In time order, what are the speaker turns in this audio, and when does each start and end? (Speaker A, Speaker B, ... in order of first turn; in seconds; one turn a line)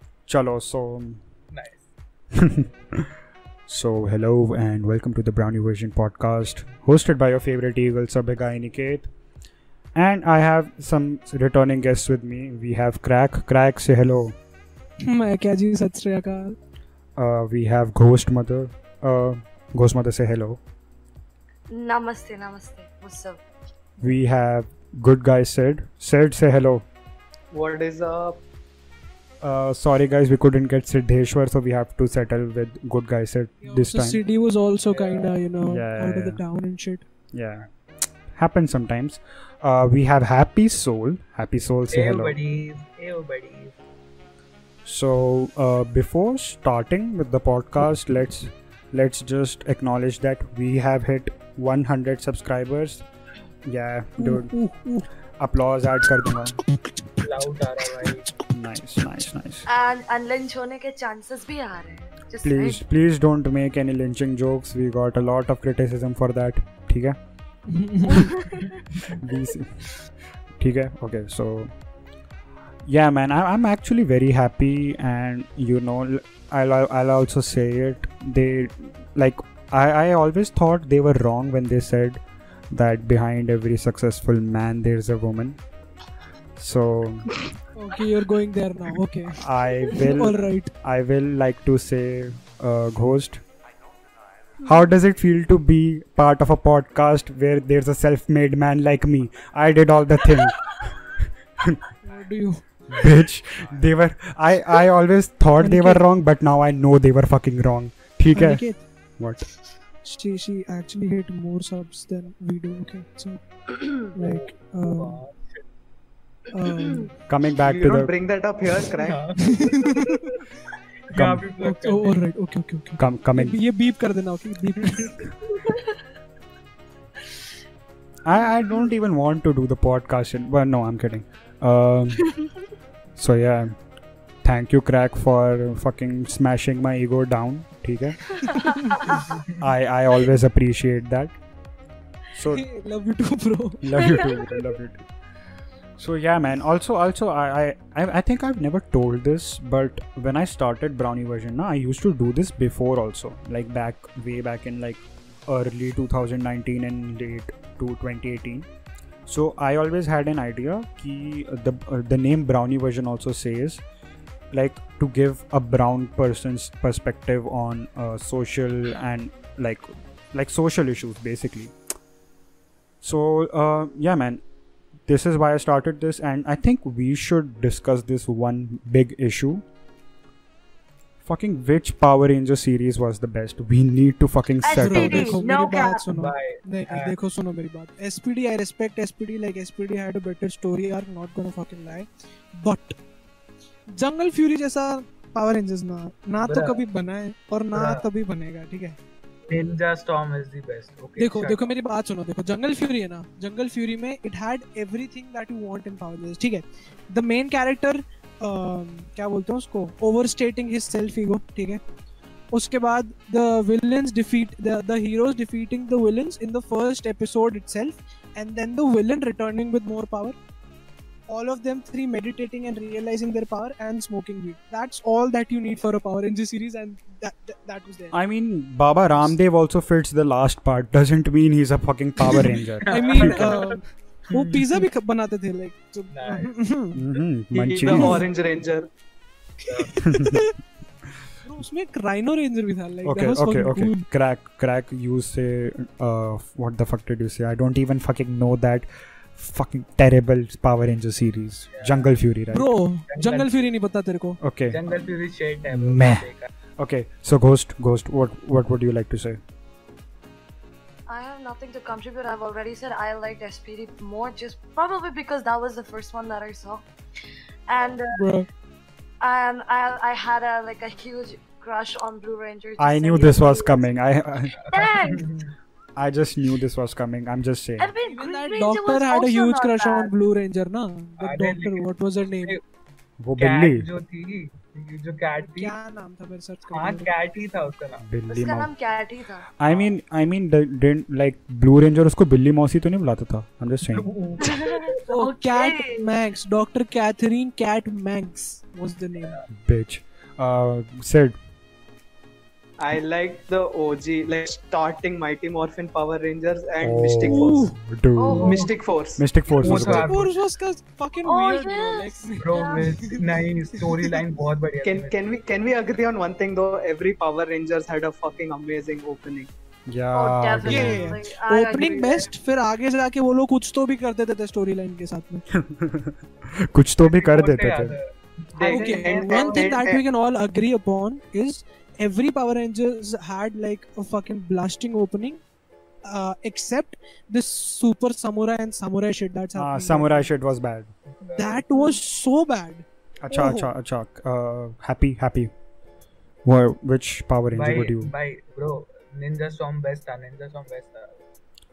Speaker A: 0.3-1.2
Speaker B: 1.5-1.8
Speaker A: 2.3-3.1
Speaker A: 3.7-9.1
Speaker A: 9.9-14.3
Speaker C: 15.0-16.6
Speaker A: 17.1-20.6
Speaker D: 21.7-23.4
Speaker A: 24.0-26.9
Speaker E: 27.5-28.4
Speaker A: 29.4-34.2
Speaker C: 33.6-37.0
Speaker E: 34.9-35.3
Speaker A: 35.7-36.4
Speaker A: 37.3-37.7
Speaker A: 38.3-42.4
Speaker B: 41.9-43.7
Speaker A: 44.8-53.0
Speaker A: 53.6-54.5
Speaker C: 54.2-55.1
Speaker A: 55.4-56.6
Speaker B: 57.2-58.3
Speaker A: 58.5-59.7
Speaker D: 59.6-62.8
Speaker A: 62.4-67.2
Speaker C: 67.7-68.7
Speaker A: 69.0-69.9
Speaker A: 70.6-71.7
Speaker A: 72.8-85.6
Speaker A: 86.6-87.4
Speaker C: 87.7-90.7
Speaker A: 89.3-93.4
Speaker A: 94.6-101.8
Speaker C: 102.0-102.6
Speaker A: 102.9-108.6
Speaker C: 105.6-106.0
Speaker C: 108.3-108.8
Speaker A: 109.2-109.5
Speaker C: 110.0-113.4
Speaker C: 114.0-115.2
Speaker B: 114.2-115.6
Speaker C: 116.5-117.1
Speaker A: 117.3-118.1
Speaker E: 117.6-119.2
Speaker B: 118.9-120.4
Speaker C: 119.4-120.3
Speaker B: 121.1-122.2
Speaker A: 121.1-121.5
Speaker C: 121.6-125.2
Speaker A: 123.0-123.6
Speaker A: 128.2-132.3
Speaker A: 133.2-133.7
Speaker A: 134.4-138.4
Speaker D: 138.3-139.2
Speaker A: 139.6-141.4
Speaker A: 142.3-142.7
Speaker C: 142.5-144.3
Speaker A: 143.8-145.0
Speaker A: 146.0-158.7
Speaker A: 159.2-163.8
Speaker A: 164.5-171.7
Speaker A: 173.0-174.4
Speaker A: 175.1-179.6
Speaker A: 181.2-185.4
Speaker D: 184.6-186.1
Speaker C: 184.7-192.9
Speaker B: 186.1-187.1
Speaker C: 193.9-199.0
Speaker B: 196.4-196.8
Speaker B: 197.7-198.1
Speaker B: 199.5-201.7
Speaker C: 201.2-211.8
Speaker C: 212.5-220.3
Speaker C: 221.3-228.2
Speaker A: 228.1-233.7
Speaker B: 232.8-233.8
Speaker C: 232.9-237.0
Speaker B: 234.3-234.8
Speaker B: 236.1-236.5
Speaker A: 236.9-238.3
Speaker E: 237.5-238.9
Speaker C: 237.9-238.2
Speaker B: 239.6-239.9
Speaker C: 239.6-240.5
Speaker A: 239.9-240.5
Speaker C: 241.4-244.0
Speaker A: 243.0-252.7
Speaker B: 251.7-252.1
Speaker C: 252.5-254.4
Speaker B: 253.1-253.6
Speaker A: 254.4-255.0
Speaker B: 254.7-256.5
Speaker A: 255.7-259.4
Speaker D: 261.1-266.8
Speaker D: 267.7-268.2
Speaker C: 268.1-268.5
Speaker D: 269.2-273.9
Speaker A: 272.8-274.6
Speaker B: 274.6-275.5
Speaker D: 274.7-275.3
Speaker A: 276.0-277.9
Speaker D: 277.8-280.1
Speaker C: 278.0-282.6
Speaker B: 281.2-281.9
Speaker A: 283.2-283.9
Speaker B: 283.4-285.7
Speaker C: 285.4-287.1
Speaker B: 286.7-288.0
Speaker A: 288.0-288.7
Speaker D: 288.3-289.5
Speaker A: 289.6-294.1
Speaker B: 289.6-289.9
Speaker B: 293.9-295.0
Speaker D: 294.4-296.1
Speaker C: 295.1-299.4
Speaker A: 299.5-301.4
Speaker E: 302.8-307.6
Speaker A: 306.8-308.6
Speaker C: 307.2-307.8
Speaker D: 308.1-308.7
Speaker B: 308.4-308.7
Speaker E: 308.4-309.2
Speaker A: 309.1-310.1
Speaker B: 309.5-310.3
Speaker C: 309.6-314.2
Speaker D: 311.2-312.8
Speaker B: 312.4-315.2
Speaker E: 314.8-319.5
Speaker A: 319.9-321.1
Speaker D: 320.1-322.3
Speaker C: 320.6-325.4
Speaker A: 325.5-328.0
Speaker B: 327.0-329.9
Speaker E: 328.5-330.0
Speaker C: 328.7-335.4
Speaker C: 336.0-340.3
Speaker A: 339.5-340.9
Speaker B: 341.1-341.6
Speaker C: 341.3-343.7
Speaker A: 343.2-345.5
Speaker A: 346.4-348.1
Speaker B: 347.5-351.2